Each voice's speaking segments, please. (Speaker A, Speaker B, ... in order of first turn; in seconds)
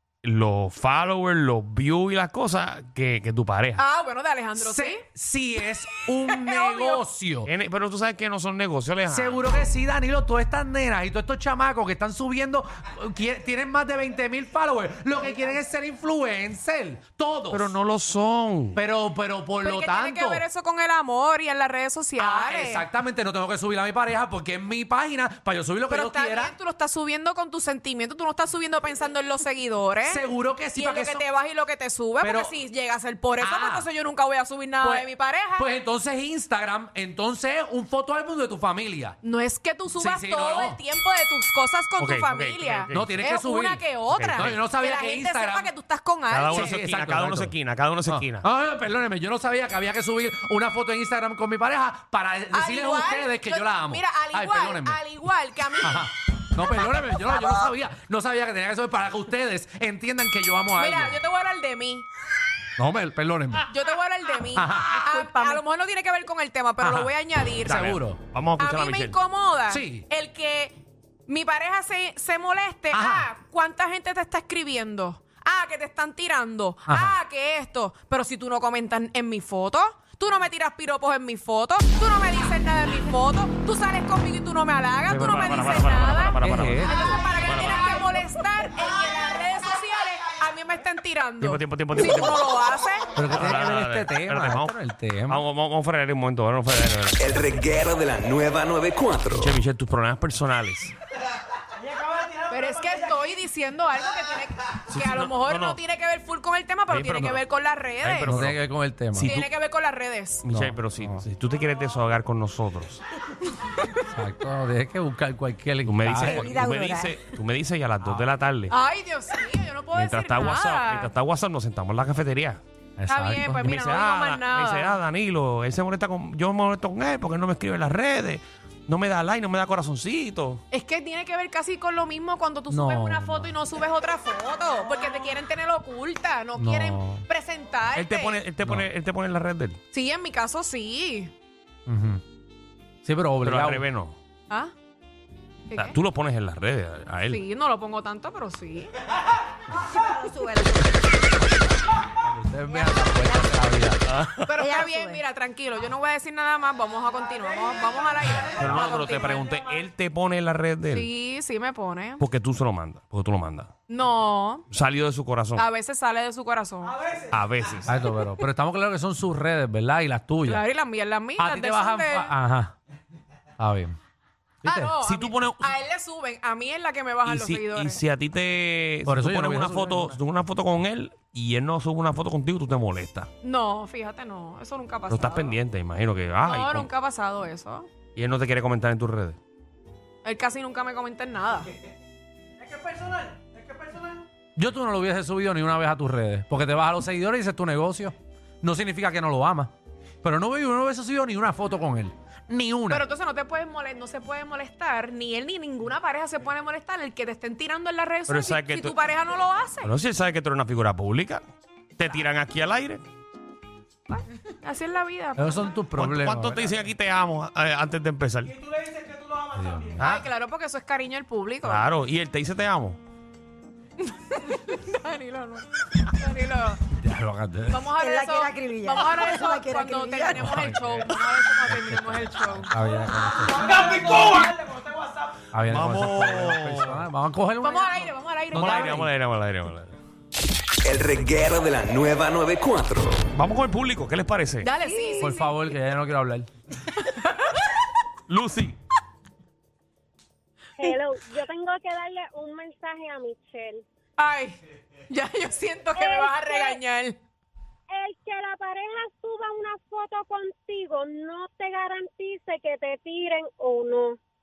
Speaker A: 0.2-3.9, 7.5-9.6, 17.5-18.8, 42.0-43.2, 44.1-44.5, 46.3-48.5, 67.7-69.2, 85.1-87.9, 91.4-92.4, 93.2-94.8, 95.3-97.5, 99.2-100.9, 104.9-105.8, 106.9-107.4, 108.0-108.6, 109.1-109.5, 110.4-113.0, 115.9-118.8, 119.9-122.6, 123.5-130.6, 137.9-139.8, 143.4-144.2, 145.8-147.4, 154.1-154.5, 158.6-161.1, 162.2-163.7, 164.7-165.7, 167.3-168.0, 175.0-175.7, 177.2-183.3, 185.1-186.9, 188.2-189.4, 208.3-209.0, 209.8-211.4, 212.0-213.1, 216.0-218.6, 221.6-223.0, 235.7-237.0, 238.5-240.0, 243.3-244.7, 248.3-248.8
Speaker B: 3.8-5.0, 6.4-7.0, 19.6-22.9, 25.9-30.2, 30.8-35.7, 39.2-46.7, 52.5-56.1, 60.8-62.1, 63.7-67.8, 68.6-93.1, 102.5-108.4, 109.2-110.5, 118.7-121.1, 123.1-125.0, 130.7-138.4, 139.9-141.3, 144.5-144.7, 145.7-146.0, 147.3-148.9, 154.5-159.5, 160.9-162.2, 163.9-164.7, 165.6-167.0, 170.4-172.3, 174.7-178.0, 183.4-185.6, 186.4-187.9, 190.2-191.7, 202.9-209.9, 214.1-215.6, 220.0-221.9, 224.0-226.8, 227.7-232.7, 237.6-239.1, 244.6-245.6, 246.9-247.5, 254.2-257.2
Speaker C: 4.5-7.5, 9.1-17.7, 18.8-20.4, 22.2-26.6, 30.1-31.3, 32.2-32.6, 33.4-33.9, 34.8-39.2, 40.0-40.8, 42.9-45.7, 46.5-47.5, 48.1-55.0, 55.8-61.2, 62.8-63.6, 64.5-65.0, 66.8-67.1, 67.7-68.2, 69.7-70.0, 72.9-73.3, 76.9-77.2, 86.4-87.2, 93.2-95.5, 108.2-109.4, 110.5-111.2, 114.1-116.5, 118.0-118.3, 123.0-123.8, 132.7-133.5, 136.6-137.2, 138.6-138.9, 141.9-142.2, 143.0-143.9, 152.2-154.0, 167.9-170.6, 171.4-172.8, 173.6-174.0, 174.6-175.0, 179.1-180.2, 194.6-203.1, 215.4-216.9, 219.5-220.1, 227.0-227.9, 230.4-230.8, 231.9-234.0, 235.5-239.1, 244.9-246.5
Speaker D: 65.1-65.6, 116.3-117.2, 149.9-151.0, 152.7-153.6, 154.6-155.2, 228.0-230.5
Speaker E: 97.2-99.5, 240.8-243.2
Speaker F: 250.8-253.8, 255.9-256.8, 257.9-264.2